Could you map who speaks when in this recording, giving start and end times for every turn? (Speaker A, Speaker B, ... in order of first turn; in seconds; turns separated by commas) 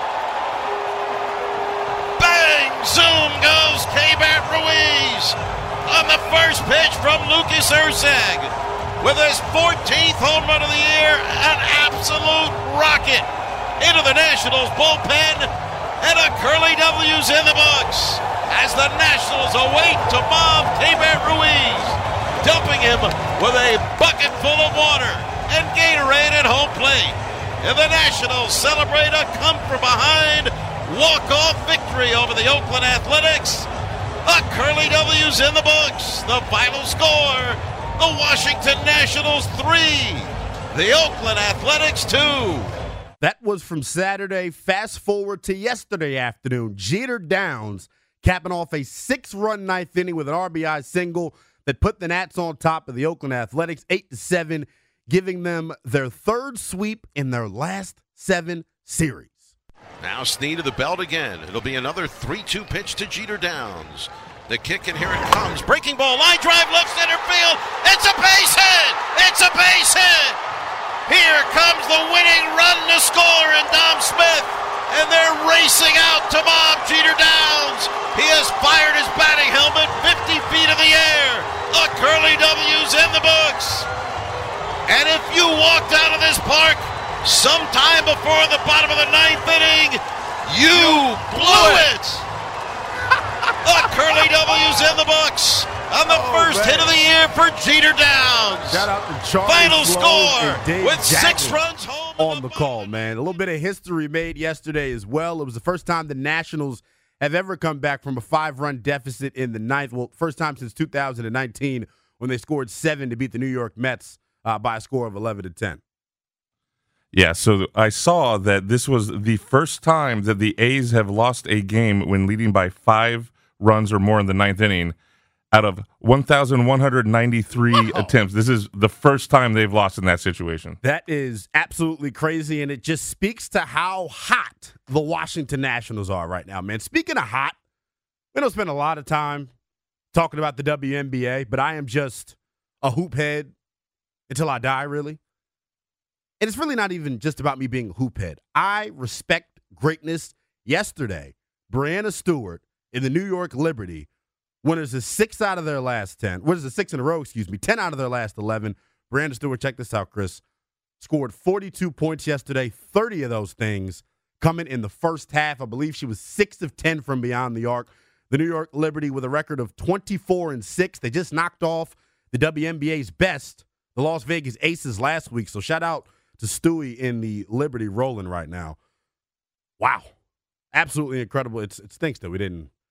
Speaker A: 2.2-13.3, Speaker A: 13.8-15.5, Speaker A: 16.0-33.7, Speaker A: 34.2-42.7, Speaker B: 43.2-59.5, Speaker A: 60.0-70.4, Speaker A: 71.1-83.9, Speaker A: 84.9-92.2, Speaker B: 90.7-91.9, Speaker A: 93.6-98.9, Speaker B: 96.0-96.9, Speaker B: 98.7-101.6, Speaker A: 99.4-102.9, Speaker B: 102.2-115.8, Speaker C: 117.1-125.0, Speaker C: 125.5-130.8, Speaker B: 130.8-137.6, Speaker B: 138.3-139.5, Speaker B: 140.1-143.5, Speaker B: 144.3-145.2, Speaker B: 146.4-154.1, Speaker B: 154.6-160.4, Speaker B: 161.0-178.8, Speaker B: 179.8-180.1, Speaker B: 180.7-182.7